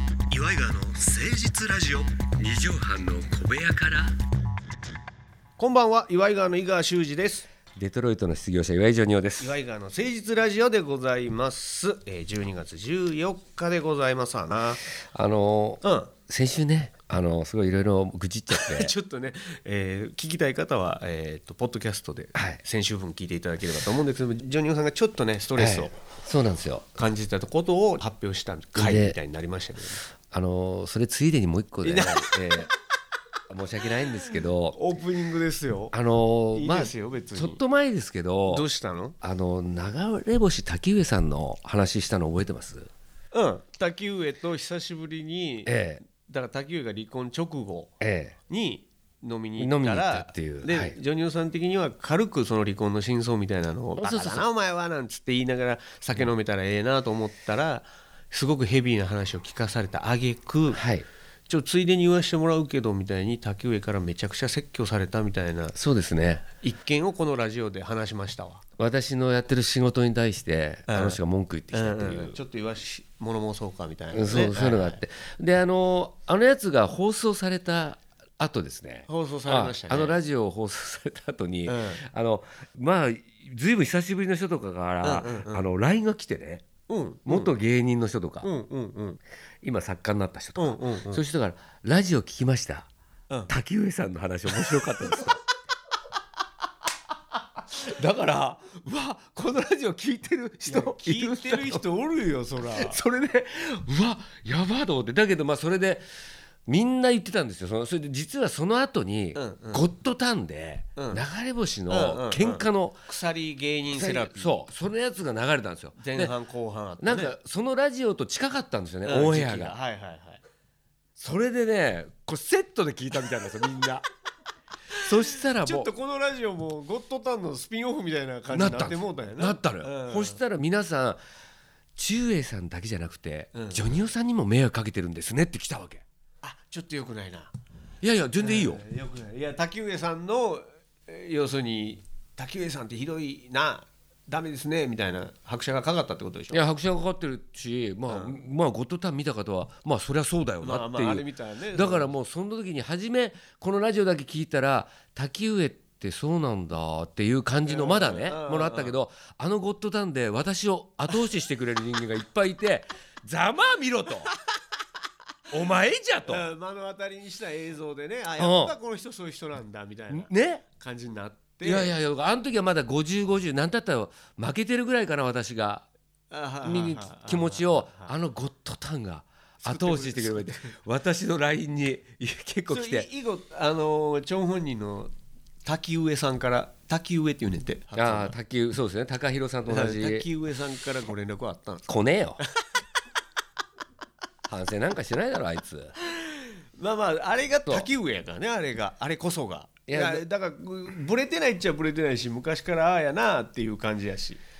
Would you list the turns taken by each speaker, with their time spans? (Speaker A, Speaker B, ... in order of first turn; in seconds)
Speaker A: 0.3-2.2, 5.6-7.5, 9.4-14.8, 15.8-16.1, 18.5-26.0, 26.9-30.0, 31.8-32.3, 34.7-35.9, 36.5-37.6, 38.5-39.1, 43.3-47.9, 48.5-60.8, 61.5-65.8, 66.6-68.6, 70.9-71.2, 71.7-75.0, 79.1-80.2, 81.7-82.0, 85.0-85.7, 86.9-87.5, 88.4-89.2, 90.6-91.2, 94.8-95.3, 100.6-103.0, 109.3-109.8, 111.0-111.2, 111.9-114.6, 116.0-117.3, 119.0-120.4, 125.6-130.4, 133.5-134.0, 136.4-137.5, 138.4-146.6, 148.1-148.4, 150.6-152.1, 157.7-159.0, 166.2-171.9, 176.3-178.1, 179.6-180.7, 182.7-185.1, 185.6-188.3, 189.7-192.5, 196.0-204.4
Speaker B: 2.4-4.1, 7.7-9.6, 15.1-18.9, 22.4-22.6, 25.6-26.8, 28.8-29.1, 30.3-32.7, 33.5-34.8, 35.9-38.6, 39.2-42.9, 45.6-46.0, 48.0-48.3, 49.6-51.0, 54.0-54.4, 60.7-61.0, 65.7-66.4, 68.8-72.3, 74.1-86.7, 87.2-88.5, 89.6-92.9, 93.5-95.4, 97.7-101.8, 102.6-106.0, 106.7-113.0, 113.9-116.3, 117.0-119.8, 121.2-124.0, 125.0-125.9, 128.5-131.2, 131.9-136.0, 138.0-138.8, 146.5-164.3, 165.5-166.4, 168.4-168.7, 170.1-170.6, 171.6-175.8, 176.6-183.1, 187.9-190.2, 191.9-192.4, 194.5-195.9, 199.9-200.2